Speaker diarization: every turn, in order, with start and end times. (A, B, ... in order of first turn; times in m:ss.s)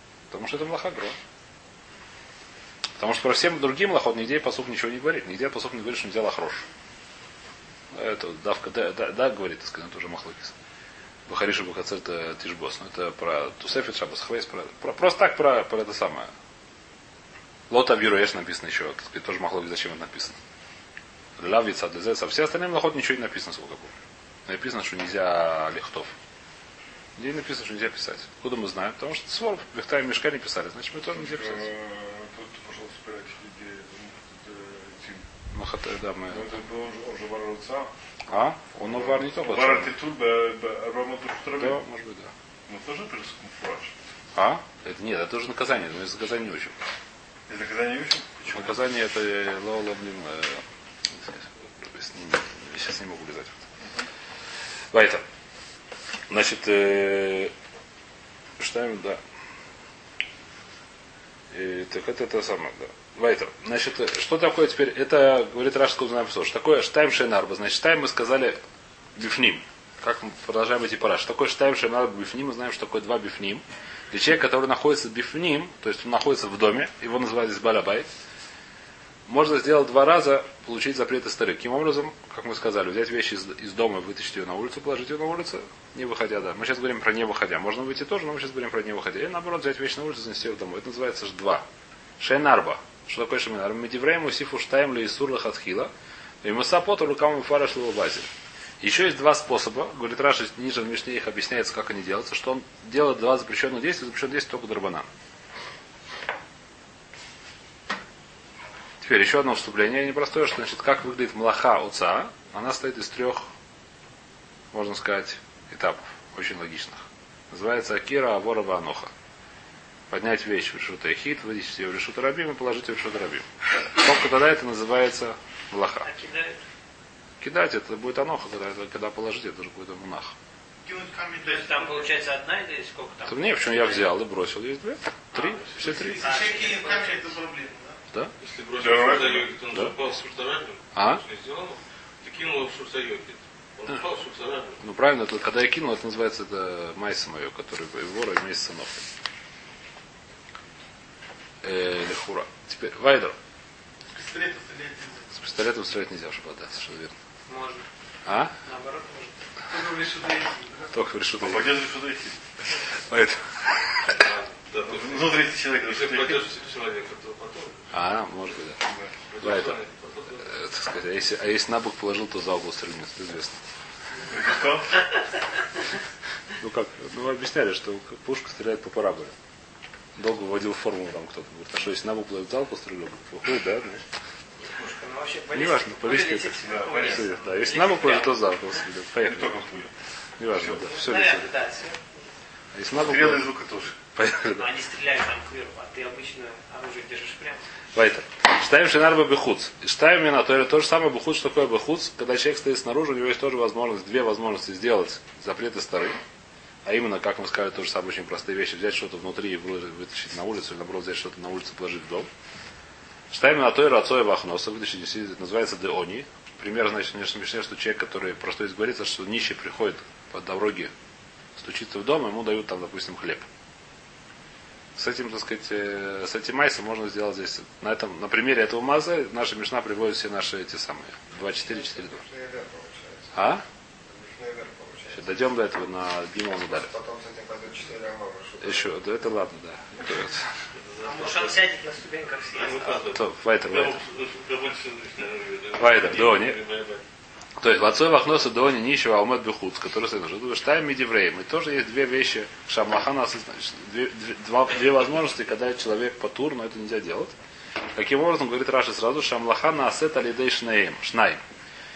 0:00.3-0:01.2 A
0:03.0-0:06.6 A
0:07.9-0:10.6 A
0:11.3-0:16.3 A
0:17.7-0:20.4 A
0:21.4-0:23.9 A
0:24.5-0:26.1 A
0:27.2-0:31.7 A
0:31.1-0:35.2 B
0:35.5-0:36.6 A
0:36.3-0:37.9 B
0:38.3-0:39.9 A
0:38.8-0:41.8 B
0:41.6-0:42.3 A
0:42.7-0:44.0 B
0:44.4-0:46.8 A
0:47.5-0:48.8 B
0:48.5-0:53.6 A
0:54.9-0:55.2 A
0:56.3-0:57.5 A
0:58.6-0:59.2 A
1:01.5-1:08.6 A
1:09.2-1:18.1 A
1:19.3-1:31.6 A
1:32.2-1:35.9 A
1:36.4-1:38.3 A
1:38.8-1:45.1 A
1:49.0-1:53.5 A
1:54.7-1:59.1 A
2:00.1-2:06.1 A
2:06.0-2:06.6 C
2:07.4-2:10.3 A
2:10.8-2:12.1 D
2:11.4-2:14.1 C
2:13.3-2:16.3 A
2:15.3-2:17.4 C
2:15.8-2:18.0 D
2:18.4-2:24.8 E
2:18.8-2:19.5 B
2:20.9-2:21.2 A
2:24.8-2:29.0 A
2:31.6-2:33.4 A
2:34.1-2:35.3 D
2:35.3-2:37.2 A
2:37.5-2:37.8 C
2:38.3-2:38.6 A
2:38.6-2:39.4 C
2:39.7-2:40.9 D
2:40.9-2:41.8 A
2:41.4-2:42.4 B
2:43.1-2:44.2 A
2:44.1-2:47.9 E
2:44.9-2:46.4 B
2:47.9-2:48.8 A
2:49.3-2:50.5 E
2:49.4-2:49.8 A
2:50.4-2:53.6 A
2:54.3-2:55.0 B
2:56.6-2:59.3 A
3:00.2-3:04.0 A
3:04.6-3:08.4 C
3:05.5-3:09.6 A
3:06.6-3:07.3 B
3:09.2-3:09.9 B
3:10.4-3:11.5 A
3:10.5-3:10.9 B
3:10.8-3:12.1 C
3:12.7-3:13.5 A
3:12.9-3:14.0 B
3:14.2-3:14.7 A
3:14.6-3:17.6 C
3:18.0-3:26.2 A
3:26.8-3:32.3 A
3:33.3-3:40.9 A
3:41.6-3:43.5 A
3:45.0-3:52.3 A
3:51.4-3:53.5 F
3:53.3-3:53.6 A
3:54.1-3:55.5 F
3:55.1-3:56.9 A
3:56.5-3:59.3 F
3:58.6-4:00.5 A
4:00.8-4:01.6 E
4:01.0-4:03.0 C
4:02.5-4:07.0 E
4:03.1-4:04.0 A
4:05.8-4:06.6 A
4:07.6-4:17.3 A
4:18.0-4:21.4 A